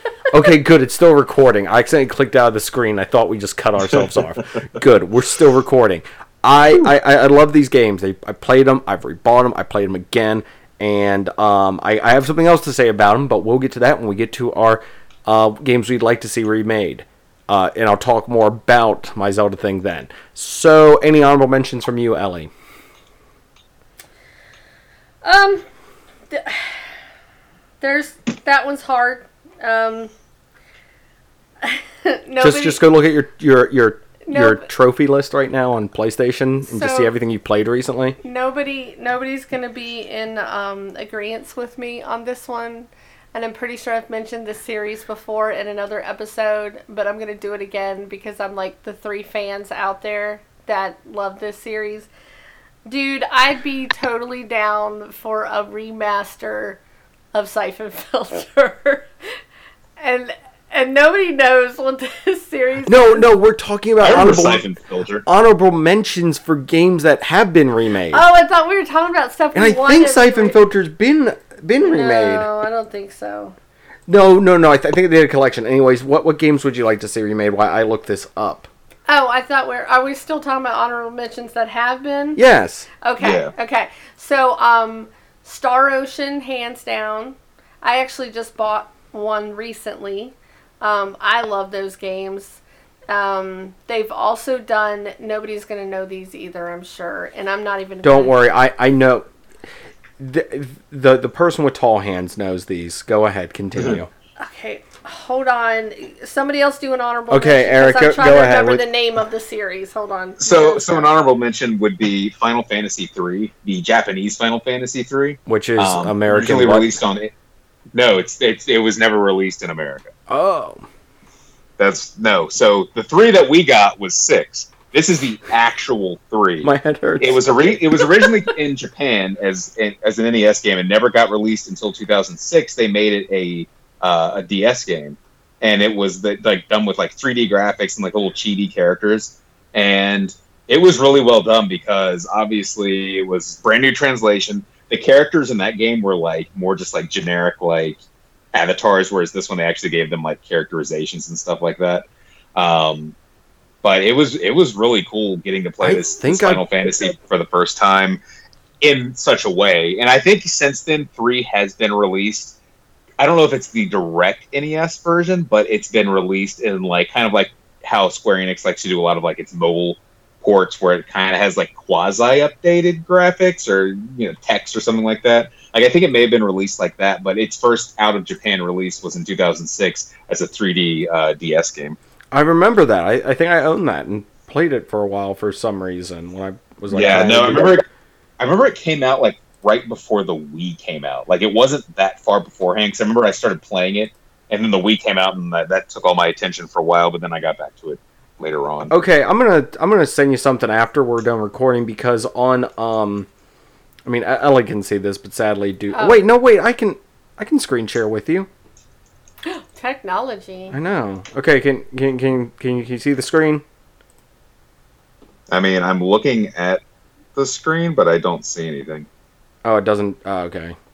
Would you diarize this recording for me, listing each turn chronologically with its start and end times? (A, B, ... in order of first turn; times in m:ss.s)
0:00.3-0:22.5 A
0:25.2-0:25.6 B
0:26.3-0:26.9 B
0:27.8-0:30.1 B
0:31.6-0:32.8 B
0:32.4-0:38.2 A
0:34.2-0:34.7 B
0:36.6-0:37.1 B
0:38.2-0:52.1 B
0:52.9-0:56.8 B
0:57.3-0:59.4 B
1:00.0-1:03.3 B
1:02.9-1:04.6 A
1:04.0-1:05.2 C
1:05.2-1:08.2 A
1:08.1-1:10.6 B
1:09.5-1:12.5 A
1:11.8-1:13.5 B
1:14.1-1:18.7 A
1:19.1-1:22.4 B
1:22.4-1:22.9 A
1:23.0-1:38.4 B
1:23.2-1:23.5 C
1:38.0-1:39.3 A
1:40.2-1:44.1 A
1:44.4-1:51.1 B
1:47.3-1:48.8 A
1:50.4-1:57.3 C
1:55.4-1:57.0 A
1:57.9-2:00.1 C
2:00.3-2:00.8 A
2:01.8-2:28.0 C
2:06.6-2:07.8 A
2:28.5-2:33.1 C
2:33.8-2:38.2 C
2:35.8-2:36.6 A
2:38.8-2:42.6 C
2:43.2-3:02.0 C
3:02.3-3:07.8 A
3:06.9-3:07.9 C
3:08.4-3:19.0 C
3:18.9-3:23.3 A
3:24.0-3:28.5 A
3:25.9-3:26.2 B
3:29.4-3:30.7 B
3:30.7-3:33.6 A
3:35.5-3:36.8 C
3:37.4-3:39.1 C
3:39.6-3:40.8 A